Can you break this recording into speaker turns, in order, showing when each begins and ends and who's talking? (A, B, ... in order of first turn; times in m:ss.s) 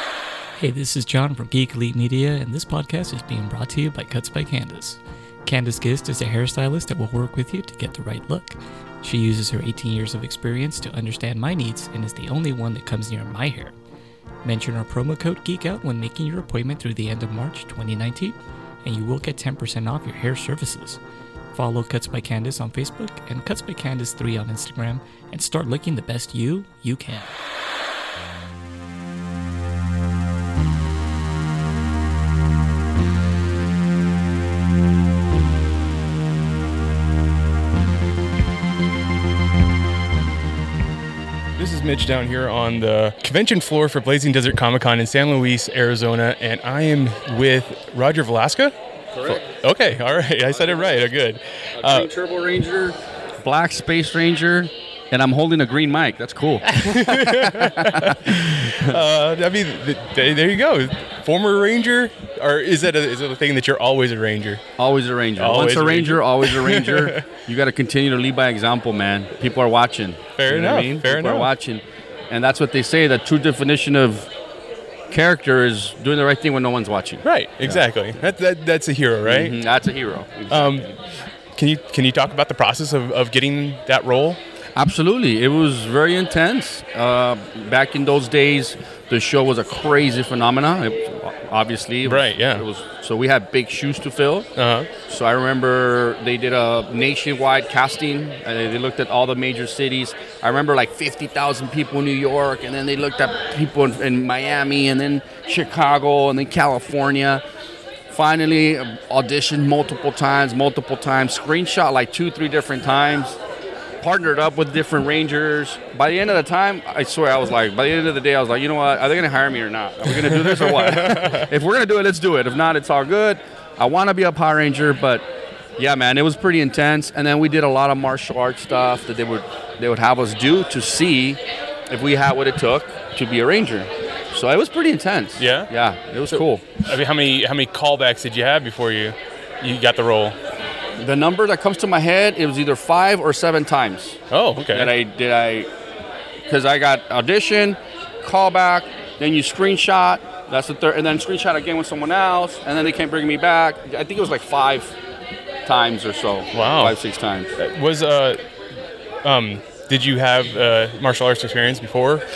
0:00.6-0:13.8 A
0:14.4-0:21.0 A
0:21.5-0:27.4 A
0:41.6-0:48.7 B
0:49.1-0:49.4 C
0:49.3-0:52.1 B
0:50.5-0:51.1 C
0:51.8-0:59.0 C
0:56.7-1:04.6 B
1:04.8-1:14.3 C
1:05.4-1:07.2 B
1:10.4-1:11.5 B
1:15.1-1:17.8 C
1:17.2-1:19.6 B
1:19.2-1:21.0 C
1:20.5-1:20.9 B
1:21.6-1:24.4 B
1:24.8-1:34.5 C
1:32.0-1:32.6 B
1:34.6-1:34.9 B
1:35.0-1:47.4 C
1:48.1-1:53.4 C
1:54.0-2:05.3 C
2:00.8-2:01.5 B
2:05.8-2:16.8 C
2:15.4-2:15.7 B
2:16.3-2:20.4 B
2:21.0-2:25.7 C
2:24.3-2:24.9 B
2:26.5-2:35.0 C
2:35.6-2:37.5 C
2:36.5-2:37.0 B
2:37.6-2:38.4 B
2:39.2-2:42.2 B